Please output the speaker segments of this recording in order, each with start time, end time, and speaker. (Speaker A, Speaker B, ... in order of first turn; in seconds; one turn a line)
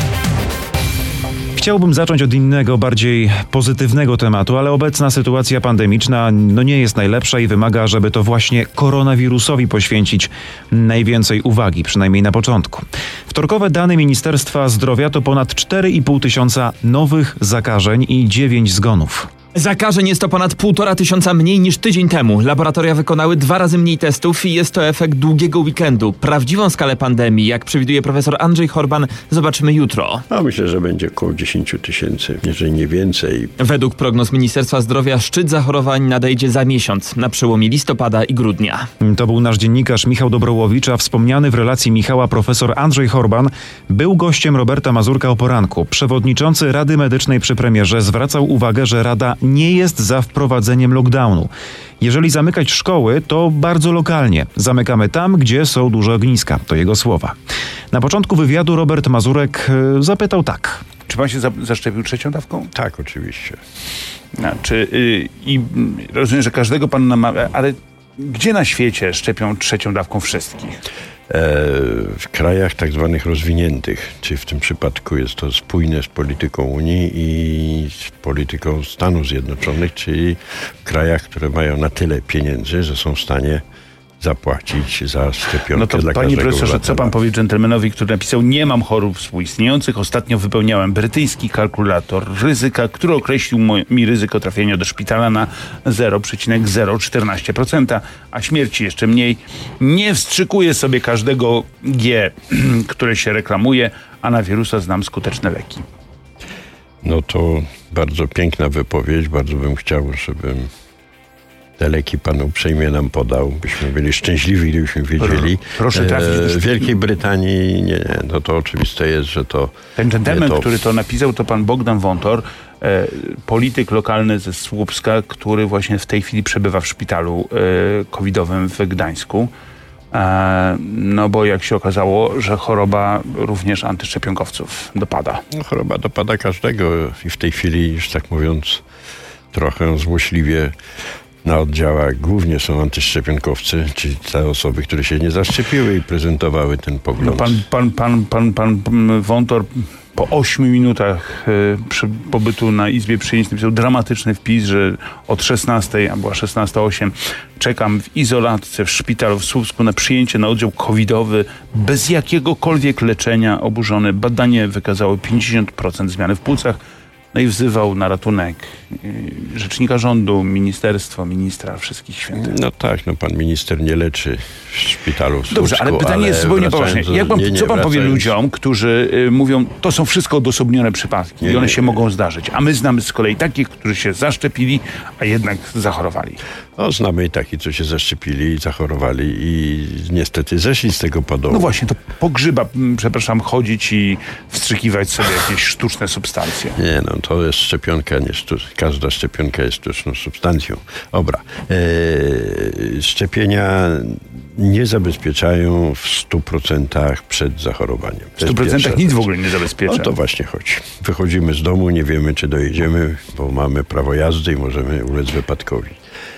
Speaker A: 1.6-19.3
Speaker B: 19.5-30.2
Speaker C: 30.3-33.5
Speaker B: 33.6-38.9
Speaker A: 39.0-57.3
Speaker A: 57.9-60.8
Speaker D: 61.1-62.7
Speaker C: 62.7-63.6
Speaker D: 64.3-70.8
Speaker C: 71.3-83.6
Speaker C: 84.2-87.1
Speaker D: 85.7-105.8
Speaker C: 107.0-110.7
Speaker C: 111.8-120.7
Speaker D: 115.2-116.9
Speaker D: 120.0-129.5
Speaker D: 130.1-135.4
Speaker C: 135.5-138.8
Speaker C: 139.5-140.7
Speaker C: 141.4-147.6
Speaker D: 147.2-166.8
Speaker D: 167.3-172.6
Speaker C: 172.3-178.3
Speaker D: 175.5-186.4
Speaker C: 181.4-181.9
Speaker C: 186.8-191.8
Speaker D: 191.5-196.8
Speaker C: 196.8-209.3
Speaker D: 208.4-210.1
Speaker C: 209.9-216.0